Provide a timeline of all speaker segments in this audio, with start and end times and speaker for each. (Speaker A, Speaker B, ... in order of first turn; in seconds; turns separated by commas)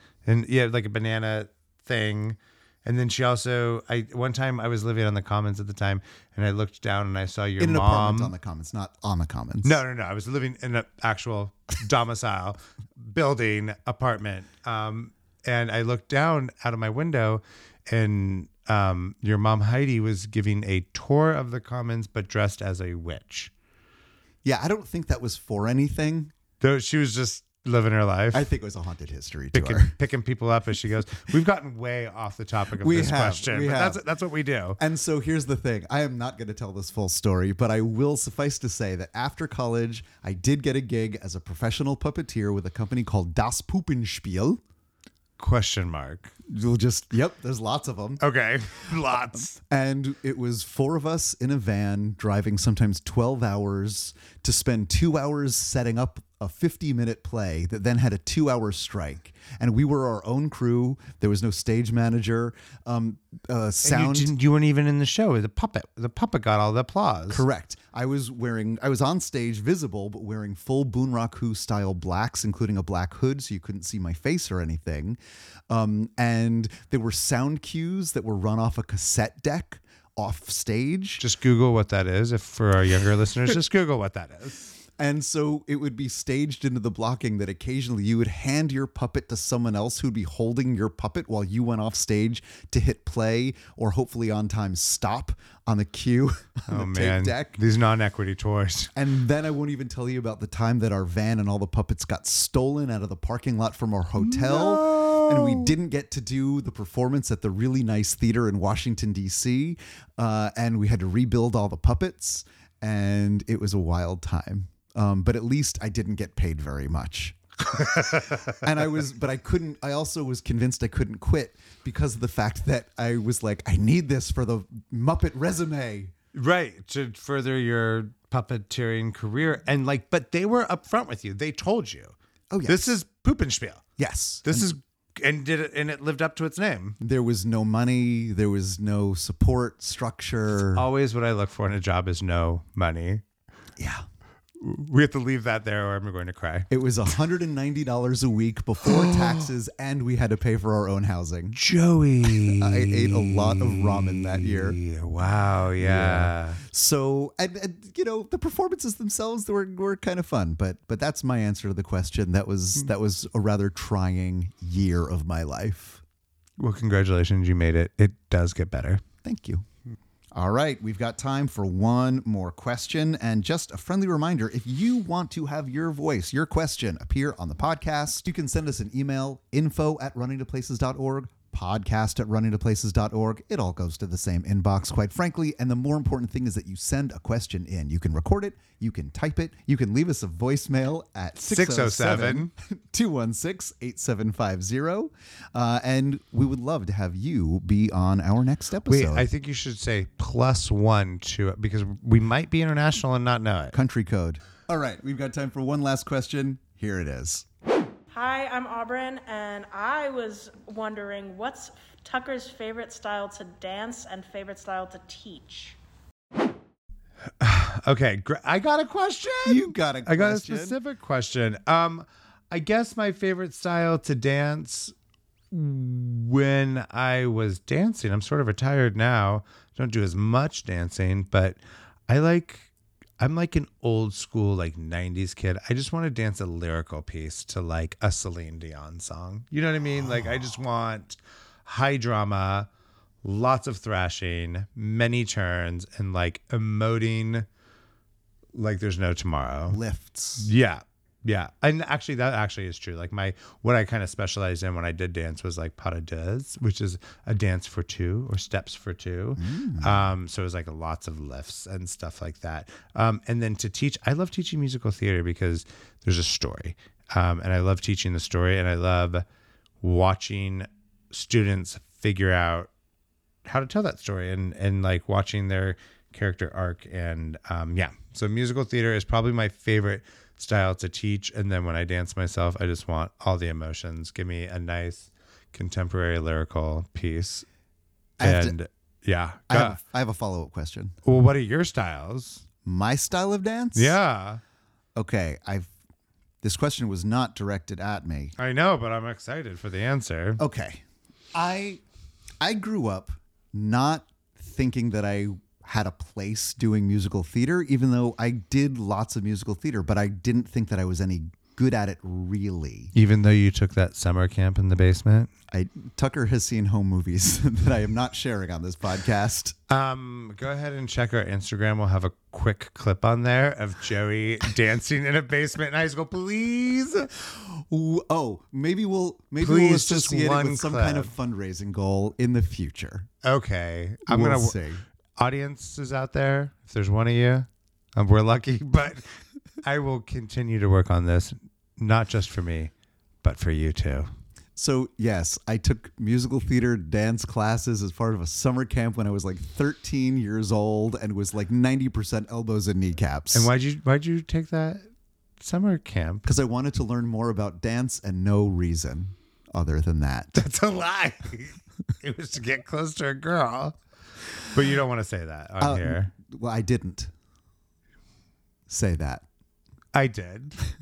Speaker A: 0.2-8.3, Speaker B: 7.6-9.8, Speaker A: 9.6-23.5, Speaker B: 24.4-26.3, Speaker A: 26.6-28.5, Speaker B: 28.3-30.0, Speaker A: 29.5-34.8, Speaker B: 32.8-34.0, Speaker B: 34.8-44.6, Speaker A: 45.4-46.3, Speaker B: 46.5-48.2, Speaker A: 48.2-49.6, Speaker B: 49.3-64.3, Speaker A: 63.8-67.4, Speaker B: 67.3-75.2, Speaker B: 75.7-81.2, Speaker A: 81.2-84.7, Speaker B: 85.0-97.6, Speaker A: 96.7-98.9, Speaker B: 99.0-126.1, Speaker A: 104.2-105.7, Speaker A: 117.7-118.7, Speaker A: 126.3-132.2, Speaker B: 132.5-133.0, Speaker A: 132.7-133.8, Speaker B: 134.0-134.7, Speaker A: 134.4-137.0, Speaker B: 137.0-140.9, Speaker A: 140.7-143.2, Speaker B: 143.8-144.1, Speaker A: 144.6-146.7, Speaker B: 146.7-151.6, Speaker A: 148.8-149.5, Speaker A: 151.6-156.6, Speaker B: 152.3-154.8, Speaker B: 155.8-166.0, Speaker A: 166.6-169.0, Speaker B: 169.2-169.6, Speaker B: 170.3-199.3, Speaker A: 191.4-192.5, Speaker A: 198.9-203.8, Speaker B: 203.7-207.5, Speaker C: 208.1-215.8, Speaker A: 217.4-224.9, Speaker B: 219.4-220.8, Speaker A: 225.5-242.7, Speaker A: 243.2-247.5, Speaker A: 248.5-249.8, Speaker B: 249.7-250.5, Speaker A: 250.4-269.2, Speaker B: 259.4-260.1, Speaker A: 269.8-272.7, Speaker A: 273.4-287.5, Speaker B: 288.2-288.6, Speaker A: 288.2-289.8, Speaker B: 289.5-291.0, Speaker A: 291.1-292.4, Speaker B: 292.6-294.0, Speaker A: 293.8-294.4, Speaker B: 295.0-295.7, Speaker B: 296.4-298.3, Speaker A: 298.4-300.4, Speaker B: 300.4-301.8, Speaker B: 302.4-312.9, Speaker A: 312.9-315.3, Speaker B: 315.5-319.6, Speaker A: 319.7-327.1, Speaker B: 327.3-333.1, Speaker A: 329.4-331.1, Speaker A: 333.2-334.6, Speaker B: 334.1-334.8, Speaker A: 335.2-339.1, Speaker A: 339.6-342.7, Speaker A: 343.2-344.1, Speaker B: 344.6-353.5, Speaker A: 353.3-354.9, Speaker A: 355.4-356.3, Speaker B: 356.3-360.4, Speaker A: 360.4-363.8, Speaker A: 364.4-366.1, Speaker B: 365.6-367.1, Speaker B: 368.7-369.2, Speaker A: 369.9-370.6